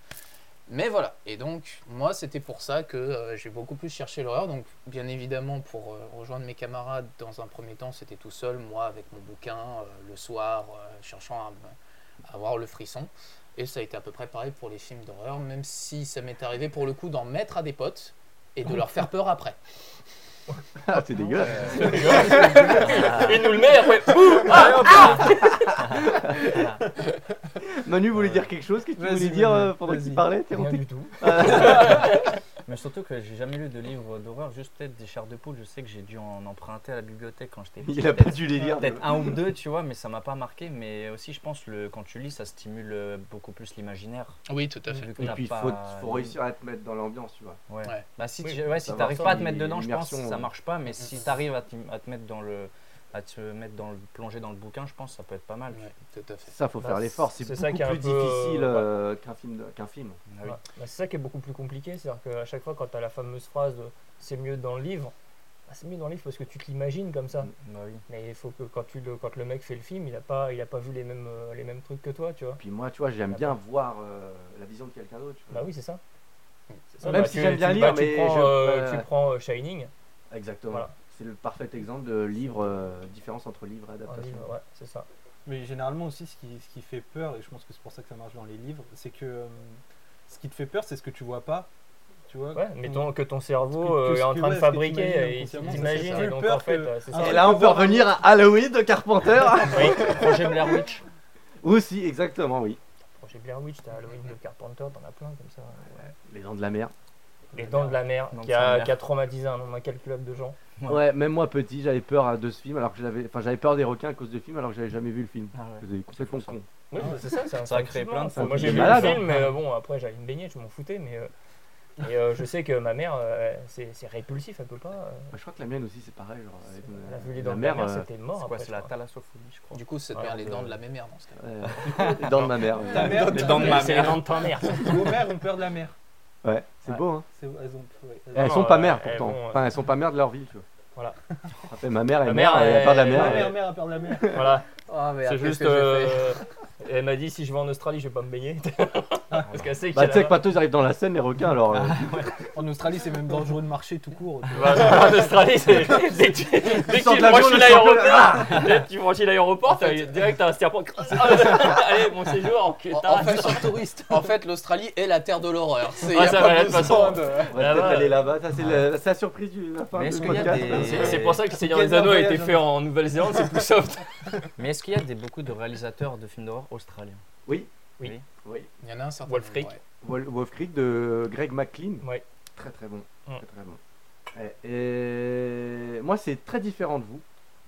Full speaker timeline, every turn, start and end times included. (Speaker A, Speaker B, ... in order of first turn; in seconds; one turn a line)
Speaker A: 0.7-19.6
Speaker B: 20.8-23.5
Speaker C: 21.4-23.3
Speaker D: 21.7-25.8
Speaker B: 24.5-26.7
Speaker C: 24.5-26.0
Speaker B: 27.6-32.1
Speaker C: 28.1-28.5
Speaker E: 28.9-30.2
Speaker D: 30.5-32.4
Speaker C: 32.6-46.4
Speaker B: 37.8-39.4
Speaker A: 44.5-45.1
Speaker B: 45.2-47.6
Speaker C: 47.7-55.9
Speaker D: 48.4-49.4
Speaker B: 48.8-50.5
Speaker A: 55.7-56.5
Speaker B: 56.5-60.2
Speaker D: 56.8-58.9
Speaker C: 60.3-60.6
Speaker D: 60.4-65.1
Speaker D: 65.7-67.5
Speaker C: 67.5-68.0
Speaker D: 68.1-72.6
Speaker B: 72.6-75.7
Speaker D: 75.5-76.0
Speaker D: 76.9-79.9
Speaker B: 77.0-79.0
Speaker B: 80.3-84.5
Speaker D: 84.1-85.1
Speaker E: 85.5-91.7
Speaker E: 92.3-93.1
Speaker D: 92.5-97.6
Speaker E: 93.7-98.2
Speaker C: 95.7-96.1
Speaker B: 97.1-100.7
Speaker D: 99.7-100.1
Speaker C: 99.7-101.0
Speaker B: 101.6-102.8
Speaker D: 103.2-106.1
Speaker B: 106.1-106.9
Speaker D: 107.5-110.6
Speaker C: 107.7-109.0
Speaker B: 110.9-116.7
Speaker C: 115.5-116.5
Speaker D: 116.9-121.3
Speaker E: 117.0-117.3
Speaker C: 117.3-119.5
Speaker B: 118.3-119.3
Speaker D: 122.0-125.3
Speaker B: 125.3-128.1
Speaker D: 127.0-128.9
Speaker C: 128.3-130.8
Speaker A: 129.7-131.4
Speaker B: 131.4-133.8
Speaker C: 131.8-134.5
Speaker E: 132.9-135.9
Speaker D: 133.2-135.1
Speaker B: 136.4-137.2
Speaker E: 137.3-138.6
Speaker B: 138.3-140.6
Speaker D: 138.4-139.6
Speaker B: 141.6-143.6
Speaker D: 142.2-143.5
Speaker E: 142.9-144.4
Speaker B: 144.1-144.6
Speaker D: 144.2-144.7
Speaker A: 144.9-146.4
Speaker D: 145.2-150.4
Speaker C: 149.5-149.7
Speaker B: 149.9-152.3
Speaker C: 151.7-152.5
Speaker E: 152.5-155.8
Speaker D: 154.5-163.7
Speaker B: 156.8-158.7
Speaker A: 159.7-160.1
Speaker A: 162.9-167.5
Speaker E: 163.2-164.3
Speaker D: 166.1-168.2
Speaker B: 167.5-171.2
Speaker C: 168.6-168.8
Speaker C: 169.9-171.4
Speaker E: 170.2-172.7
Speaker D: 170.7-174.1
Speaker E: 173.2-173.6
Speaker C: 174.6-177.2
Speaker B: 177.4-177.7
Speaker B: 178.4-178.7
Speaker A: 178.8-179.8
Speaker D: 179.3-179.7
Speaker B: 180.0-182.0
Speaker B: 182.6-183.8
Speaker B: 184.3-187.2